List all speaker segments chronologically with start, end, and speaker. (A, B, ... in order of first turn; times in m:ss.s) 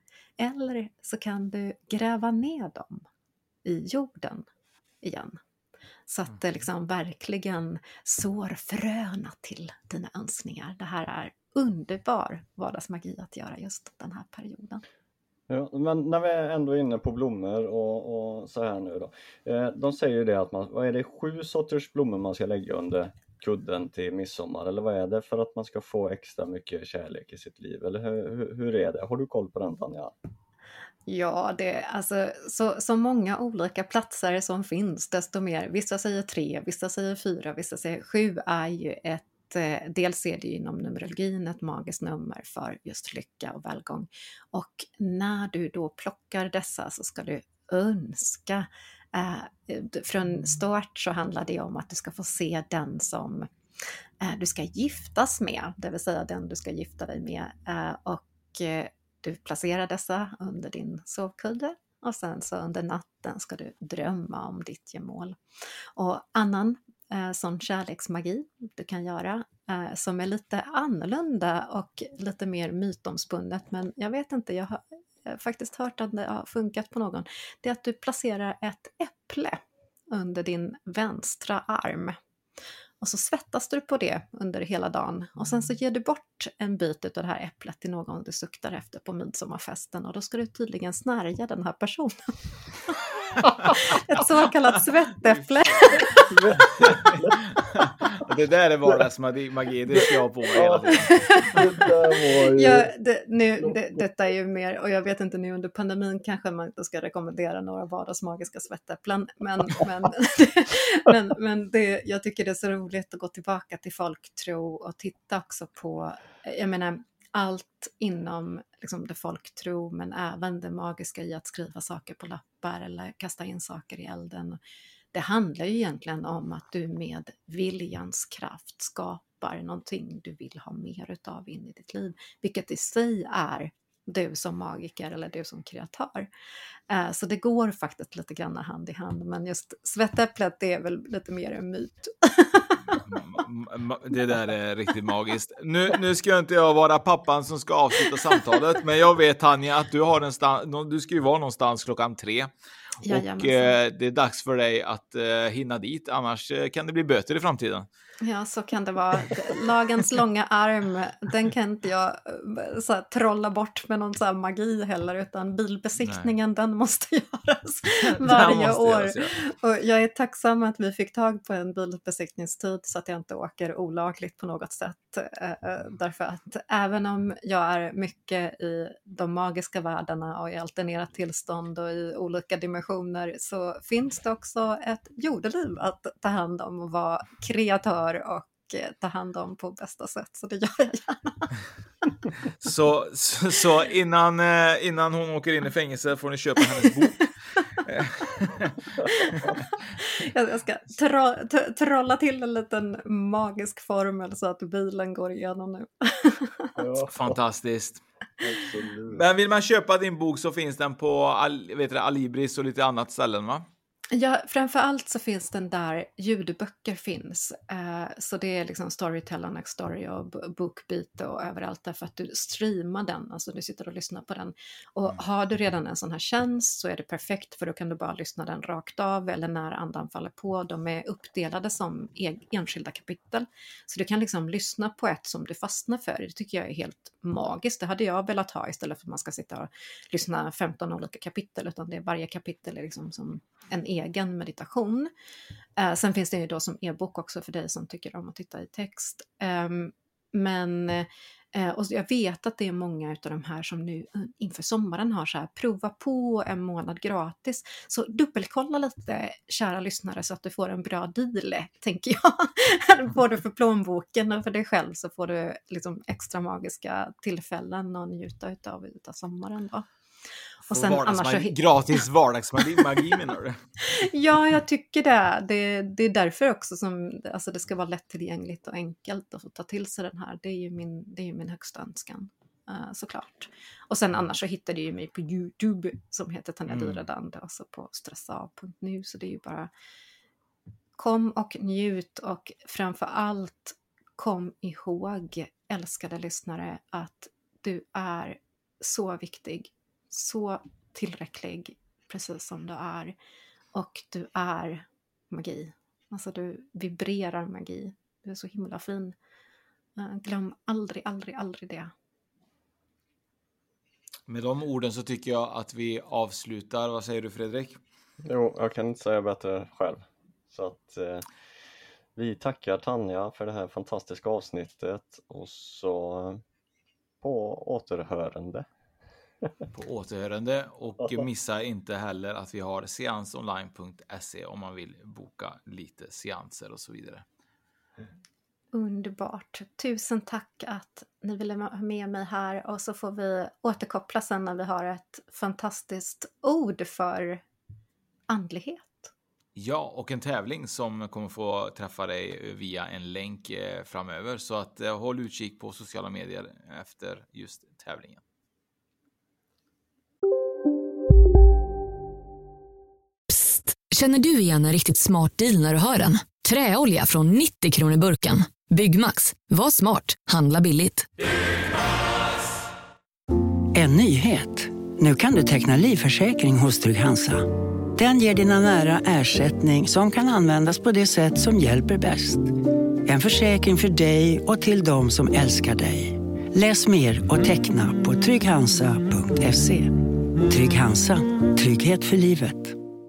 0:00.4-0:03.1 A
0:03.6-0:04.5 A
0:05.0-0:05.4 A
0:06.1-0:14.8 A
0:15.5-0:30.1 B
0:31.1-0:53.5 A
0:54.2-1:05.4 A
1:06.0-1:19.6 A
1:20.1-1:22.2 A
1:23.0-1:32.4 A
1:33.6-1:36.2 A
1:35.7-1:36.2 C
1:36.3-1:37.4 B
1:36.8-1:41.5 C
1:40.5-1:42.9 B
1:40.9-1:41.6 A
1:42.4-2:04.6 A
1:43.6-1:44.0 B
2:05.1-2:16.3 A
2:16.9-2:22.8 A
2:22.9-2:32.5 C
2:33.0-2:33.8 A
2:33.0-2:37.9 C
2:38.2-3:11.5 A
2:46.0-2:46.3 C
2:48.1-2:49.3 C
3:12.6-3:18.9 C
3:19.1-3:19.4 A
3:20.0-3:26.7 A
3:26.8-3:27.1 B
3:27.1-3:28.0 C
3:28.4-3:29.2 B
3:29.1-3:33.7 C
3:34.1-4:05.1 A
4:05.8-4:29.9 A
4:30.7-4:33.6 C
4:30.7-4:32.0 A
4:33.8-4:49.7 A
4:46.7-4:47.0 C
4:51.0-5:03.2 A
5:03.7-5:09.2 A
5:10.0-5:11.9 A
5:14.3-5:17.8 C
5:18.2-5:21.2 B
5:22.2-5:26.4 B
5:27.2-5:28.7 B
5:29.7-5:37.2 C
5:38.7-5:47.4 A
5:48.3-5:49.1 A
5:49.6-5:58.2 C
6:03.3-6:11.1 D
6:13.7-6:32.8 E